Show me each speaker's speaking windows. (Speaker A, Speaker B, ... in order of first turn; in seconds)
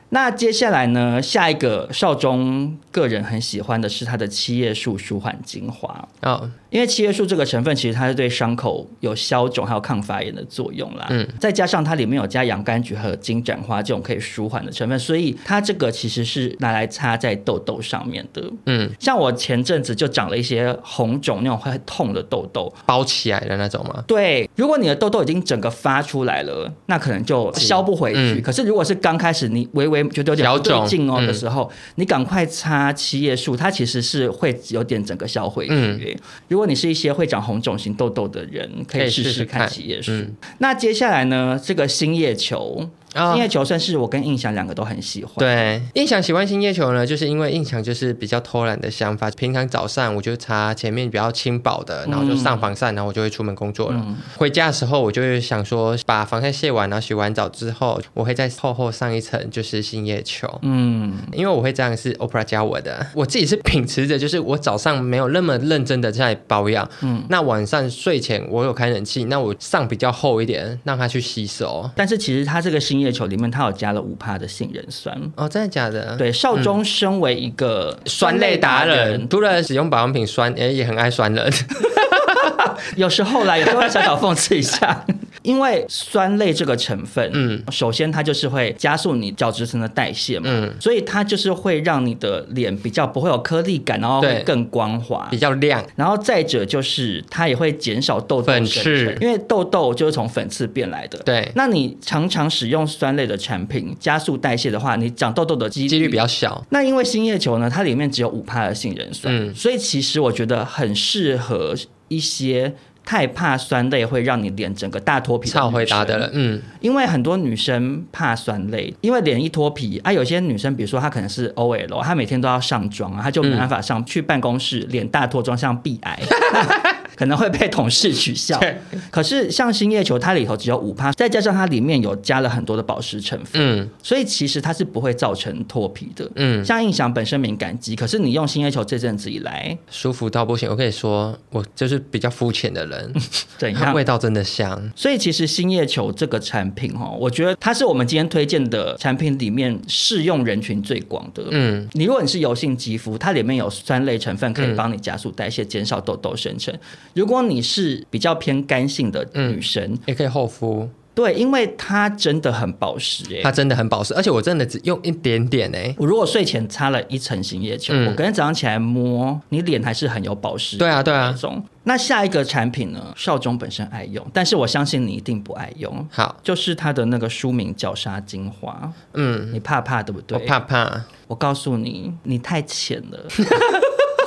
Speaker A: 0.1-6.1, 6.7-22.8, 24.1-45.5, 52.1-52.7, 53.9-54.2, 60.6-61.3, 67.0-67.3, 72.0-75.3, 76.2-79.3, 82.6-95.4, 96.0-116.3, 116.8-139.8, 143.6-144.0, 145.0-160.0, 161.2-163.5, 166.0-179.0, 179.5-180.5, 181.3-183.6
Speaker B: 6.2-6.5, 18.7-18.9, 22.9-24.1, 27.6-28.4, 30.4-31.4, 35.7-36.0, 39.0-40.3, 43.1-43.5, 45.4-60.6, 61.3-72.0, 75.4-76.7, 78.1-82.5, 83.6-84.1, 87.3-87.7, 90.4-90.8, 94.2-94.5, 95.3-95.9, 98.5-99.2, 101.3-101.5, 105.9-106.7, 109.3-109.6, 115.5-116.7, 123.4-123.7, 126.5-126.7, 133.6-133.9, 136.4-136.7, 139.9-143.2, 143.8-144.9, 151.5-151.9, 154.6-154.8, 159.4-160.9, 163.4-166.0, 167.9-168.2, 170.8-171.4, 179.1-179.6, 180.3-181.1